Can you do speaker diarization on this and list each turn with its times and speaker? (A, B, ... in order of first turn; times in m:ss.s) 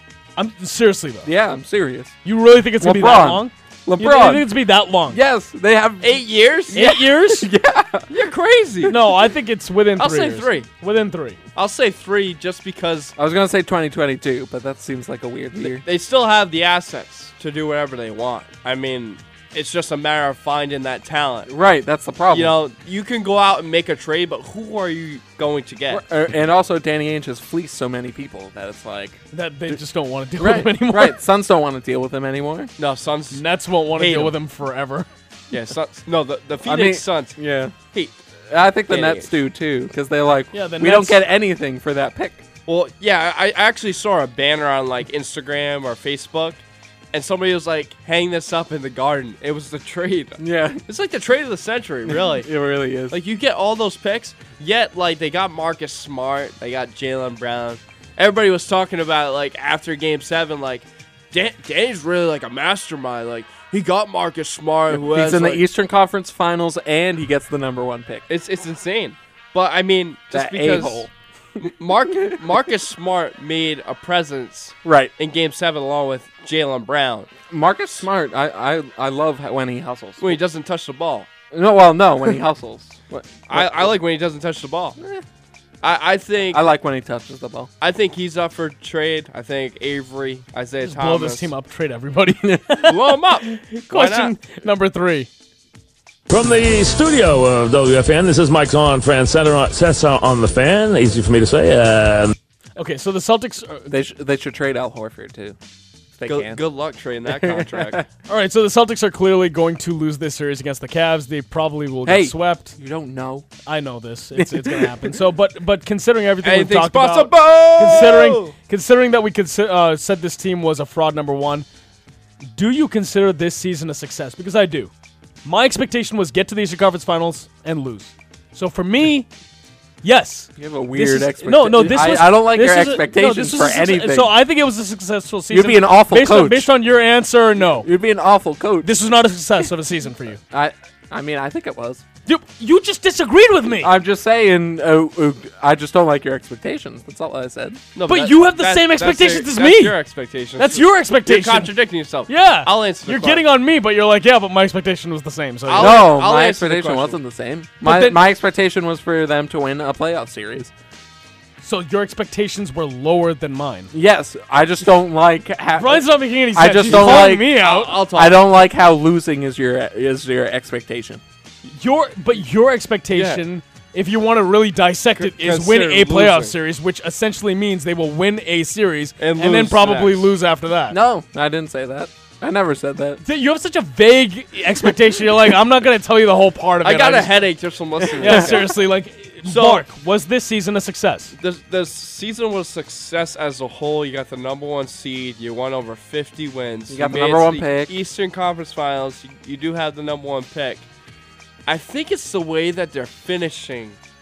0:00.4-0:01.3 A
0:01.2-0:02.2 B
0:02.2-0:05.2 A
0:02.8-0:04.5 B
0:05.1-0:08.1 B
0:06.0-0:06.9 C
0:06.7-0:07.5 A
0:08.1-0:09.0 C
0:08.9-0:11.4 A
0:10.0-0:10.7 C
0:11.6-0:13.1 C
0:13.2-0:15.8 B
0:15.6-0:21.5 C
0:21.5-0:22.6 B
0:22.3-0:26.0 C
0:25.9-0:29.8 B
0:29.3-0:31.2 A
0:30.4-0:32.7 B
0:32.8-0:33.4 C
0:33.3-0:35.1 A
0:33.9-0:34.4 C
0:35.5-0:38.2 C
0:36.6-0:37.8 B
0:38.5-0:42.4 B
0:38.9-0:39.3 C
0:40.5-0:41.2 A
0:42.7-0:52.5 C
0:50.4-0:50.8 B
0:52.1-0:53.2 B
0:53.1-1:05.6 C
1:04.9-1:08.2 B
1:08.3-1:11.1 C
1:10.3-1:12.4 B
1:11.6-1:17.3 C
1:14.8-1:15.1 B
1:17.5-1:20.4 B
1:20.2-1:21.3 C
1:21.5-1:24.0 B
1:23.5-1:25.0 C
1:25.8-1:26.7 C
1:26.5-1:27.7 B
1:27.8-1:31.5 C
1:30.8-1:35.3 A
1:32.9-1:34.4 C
1:36.3-1:42.4 D
1:42.8-1:43.9 A
1:43.9-1:45.6 B
1:46.2-1:46.6 B
1:46.2-1:48.0 C
1:47.2-1:48.0 B
1:48.3-1:52.7 A
1:52.1-1:53.4 B
1:53.6-2:01.6 A
1:54.4-1:55.1 B
1:56.4-1:58.5 C
2:02.5-2:04.9 A
2:05.4-2:09.3 A
2:10.0-2:17.9 A
2:10.6-2:14.4 B
2:15.5-2:16.7 B
2:17.8-2:18.9 B
2:18.8-2:20.4 A
2:20.5-2:22.0 B
2:22.3-2:23.9 A
2:23.8-2:27.8 B
2:27.9-2:33.4 C
2:28.1-2:30.0 A
2:30.6-2:31.7 A
2:32.3-2:36.0 A
2:35.7-2:37.2 C
2:35.8-2:40.7 B
2:37.8-2:38.2 A
2:41.6-2:43.9 A
2:43.9-2:51.2 B
2:45.8-2:48.0 A
2:46.8-2:48.6 C
2:51.6-3:01.0 A
2:53.1-2:53.4 C
2:55.2-2:56.6 C
2:59.2-3:00.3 C
3:00.9-3:03.2 B
3:03.2-3:07.4 A
3:06.8-3:08.7 C
3:08.0-3:08.7 B
3:08.2-3:11.3 A
3:09.4-3:09.9 C
3:11.4-3:20.9 C
3:16.9-3:18.0 B
3:21.7-3:24.0 C